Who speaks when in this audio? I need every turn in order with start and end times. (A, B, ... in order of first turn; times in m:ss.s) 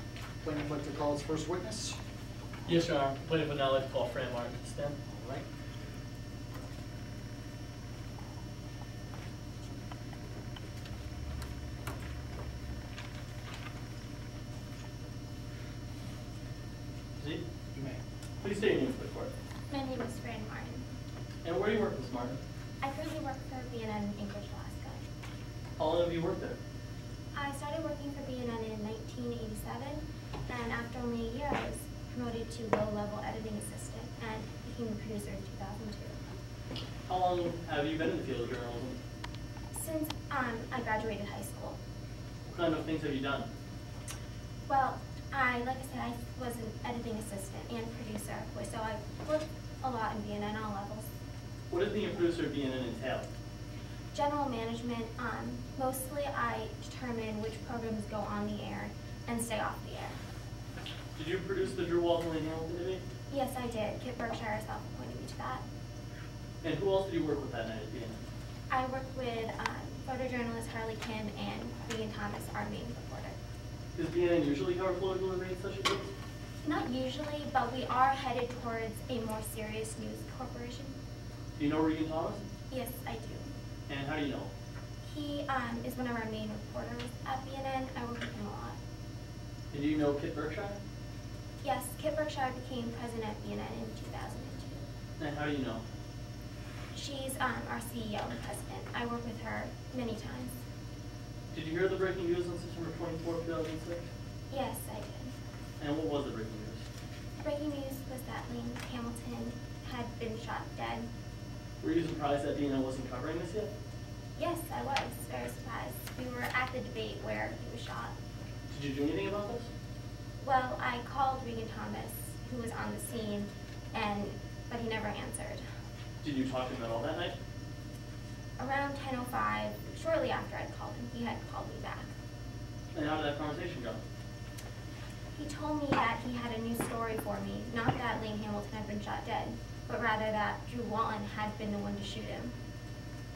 0:00.4-0:02.0 A
0:02.7-0:05.0 B
0:05.1-0:05.5 A
0:18.4-0:19.3 B
0:19.7-0:20.9 C
0:21.4-0:22.4 B
0:22.8-0:25.0 C
0:25.8-0:26.6 B
0:27.3-0:36.2 C
0:37.1-0:39.0 B
0:39.7-0:41.8 C
0:42.5-0:43.5 B
0:44.7-0:51.1 C
0:51.7-0:53.3 B
0:54.1-1:00.2 C
1:01.2-1:03.0 B
1:03.3-1:05.6 C
1:06.6-1:08.2 B
1:08.7-1:13.4 C
1:14.0-1:16.1 B
1:16.6-1:21.0 C
1:21.6-1:22.4 B
1:22.7-1:23.5 C
1:23.9-1:24.5 B
1:25.0-1:28.8 C
1:29.7-1:30.8 B
1:31.6-1:34.9 C
1:35.2-1:35.8 B
1:36.9-1:40.6 C
1:41.5-1:44.1 B
1:44.5-1:45.3 C
1:45.8-1:46.8 B
1:47.4-1:51.1 C
1:51.8-1:53.7 B
1:54.4-1:58.1 C
1:58.7-1:59.7 B
2:00.4-2:05.6 C
2:06.2-2:07.4 B
2:08.6-2:12.1 C
2:12.9-2:14.0 B
2:15.4-2:22.6 C